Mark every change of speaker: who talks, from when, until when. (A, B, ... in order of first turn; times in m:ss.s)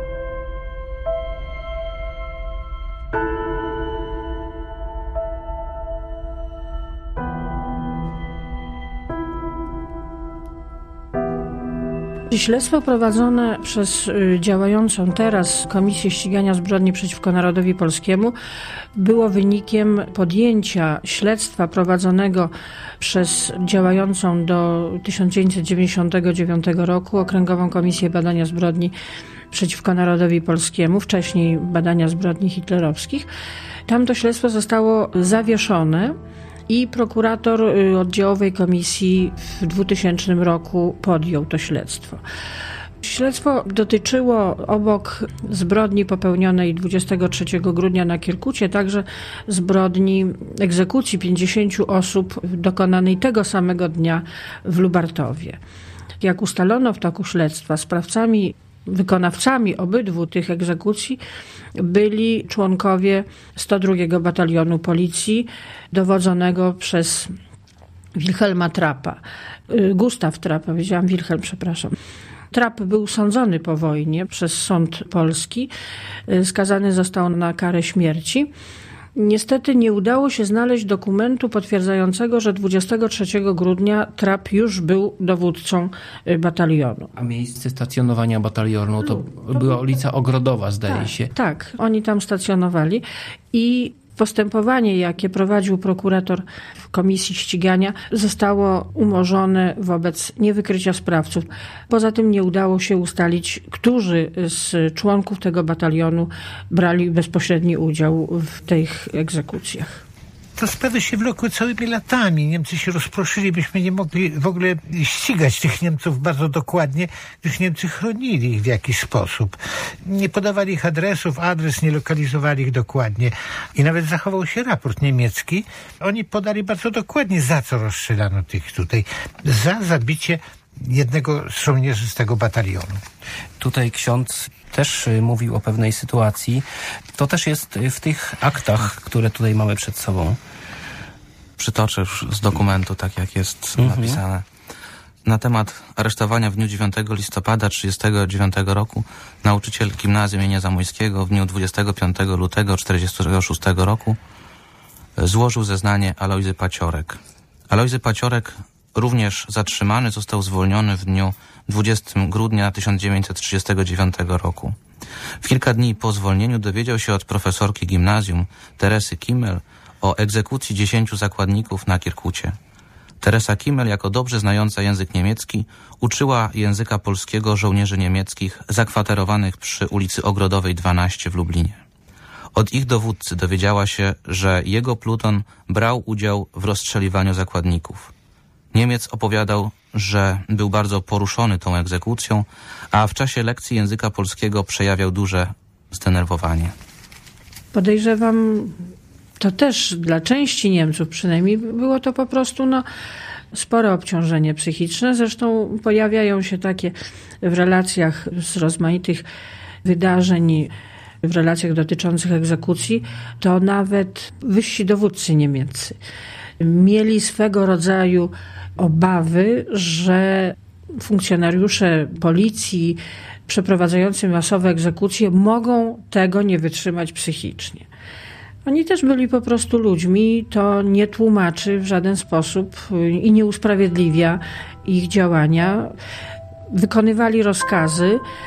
0:12.3-0:18.3 A
0:19.0-0:28.9 A
0:29.5-0:33.3 A
0:33.9-0:36.2 A
0:36.7-0:42.2 A
0:43.0-0:55.6 A
0:56.2-1:01.2 A
1:01.8-1:07.3 A
1:08.2-1:11.9 A
1:12.5-1:15.7 A
1:16.3-1:18.5 A
1:19.2-1:27.1 A
1:27.2-1:31.3 B
1:30.9-1:50.0 A
1:50.6-2:13.0 C
2:13.6-2:20.4 D
2:21.6-2:24.4 E
2:23.8-2:24.2 D
2:25.2-2:34.2 E
2:35.2-2:44.8 E
2:45.4-2:52.6 E
2:53.2-3:01.8 E
3:02.5-3:08.1 E
3:08.7-3:16.7 E
3:17.7-3:18.8 A
3:19.4-3:22.8 A
3:23.5-3:29.2 A
3:29.8-3:30.7 A
3:31.2-3:36.0 A
3:36.6-3:47.8 A
3:48.6-3:55.9 A
3:56.7-3:58.2 A